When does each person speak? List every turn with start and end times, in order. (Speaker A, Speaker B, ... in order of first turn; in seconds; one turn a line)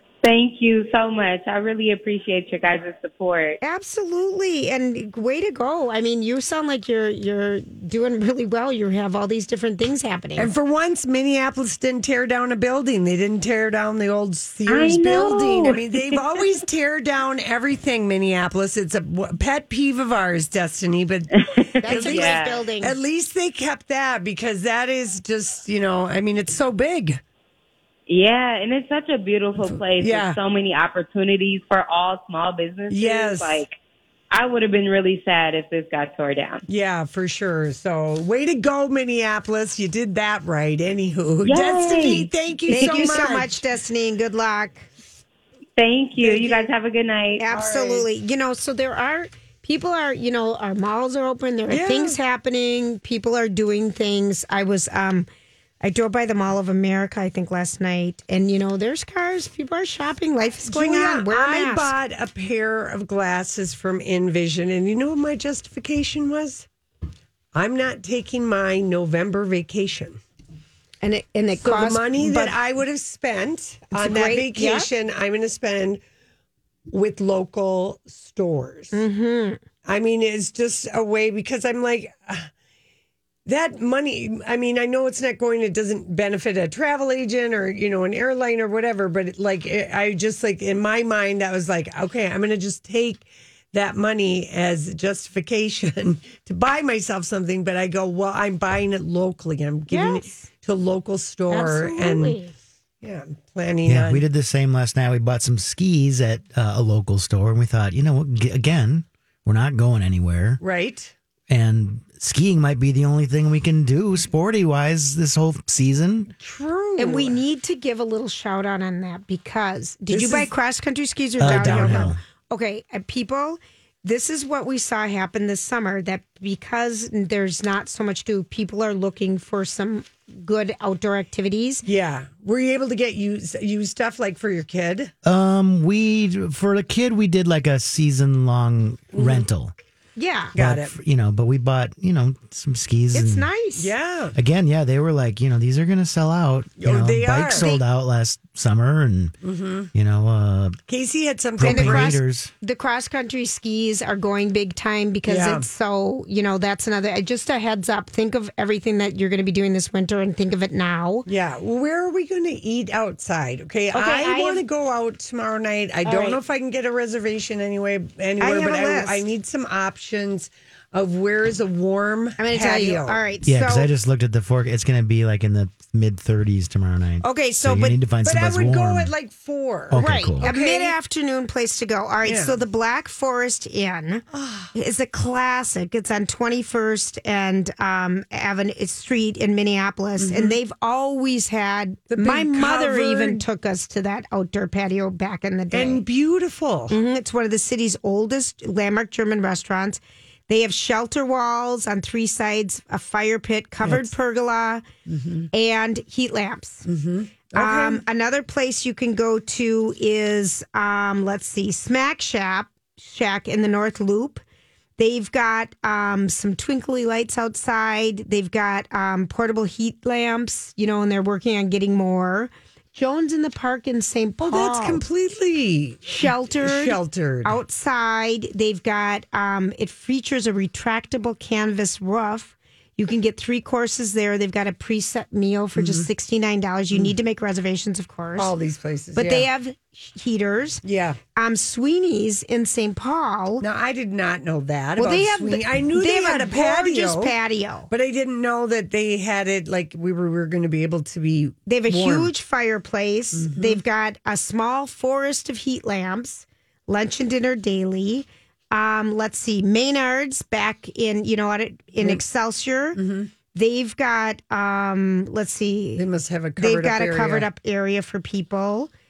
Speaker A: 0.2-3.6
Speaker B: 3.6-10.5
Speaker C: 10.4-27.2
Speaker A: 14.7-16.2
Speaker A: 21.6-22.6
Speaker B: 21.8-23.0
Speaker A: 28.1-33.7
Speaker C: 30.0-30.4
Speaker C: 32.9-33.6
Speaker A: 34.3-36.6
Speaker C: 36.7-43.5
Speaker A: 41.4-43.3
Speaker B: 42.7-44.9
Speaker A: 45.8-47.4
Speaker C: 46.2-46.6
Speaker B: 47.4-55.3
Speaker C: 47.5-48.1
Speaker C: 51.7-52.2
Speaker B: 55.8-61.9
Speaker C: 60.7-66.7
Speaker C: 67.5-70.2
Speaker B: 71.0-72.5
Speaker C: 71.6-76.0
Speaker B: 73.9-74.9
Speaker C: 76.9-79.0
Speaker B: 78.9-79.6
Speaker C: 79.8-82.5
Speaker C: 83.5-102.4
Speaker B: 99.9-100.5
Speaker B: 101.5-102.5
Speaker C: 103.0-104.2
Speaker D: 103.8-110.6
Speaker C: 110.6-111.1
Speaker D: 111.5-116.3
Speaker C: 116.4-117.4
Speaker B: 117.0-131.8
Speaker C: 120.1-120.5
Speaker D: 121.4-122.2
Speaker C: 121.4-122.1
Speaker C: 131.8-135.1
Speaker D: 135.2-139.7
Speaker C: 139.1-139.4
Speaker B: 140.2-140.5
Speaker C: 140.5-140.9
Speaker D: 140.5-143.5
Speaker B: 143.1-143.9
Speaker C: 143.8-144.3
Speaker D: 144.3-149.3
Speaker C: 146.8-147.7
Speaker B: 147.5-147.8
Speaker C: 149.4-149.9
Speaker D: 149.9-150.8
Speaker C: 150.9-152.2
Speaker D: 151.6-152.5
Speaker B: 151.6-161.3
Speaker C: 155.2-155.7
Speaker C: 161.2-173.2
Speaker B: 163.9-164.6
Speaker B: 166.0-166.4
Speaker B: 168.4-169.2
Speaker B: 172.4-173.9
Speaker D: 173.4-179.1
Speaker B: 177.2-178.0
Speaker C: 178.2-180.9
Speaker D: 179.9-180.5
Speaker B: 179.9-196.0
Speaker C: 182.2-182.6
Speaker C: 184.3-184.7
Speaker C: 190.2-190.6
Speaker C: 192.1-193.4
Speaker C: 195.7-197.0
Speaker B: 196.9-204.8
Speaker C: 203.8-204.1
Speaker C: 205.1-205.5
Speaker B: 205.5-206.8
Speaker C: 206.8-208.0
Speaker B: 207.5-214.4
Speaker B: 215.0-225.0
Speaker C: 224.4-227.6
Speaker B: 226.1-238.5
Speaker C: 235.8-236.1
Speaker C: 238.4-239.5
Speaker B: 239.1-240.8
Speaker C: 240.8-241.2
Speaker B: 241.3-243.6
Speaker C: 243.6-247.3
Speaker B: 245.0-247.9
Speaker C: 247.9-252.3
Speaker B: 251.7-263.0
Speaker C: 253.3-253.8
Speaker C: 262.9-263.3
Speaker B: 263.5-266.0
Speaker C: 266.0-267.5
Speaker B: 266.6-268.9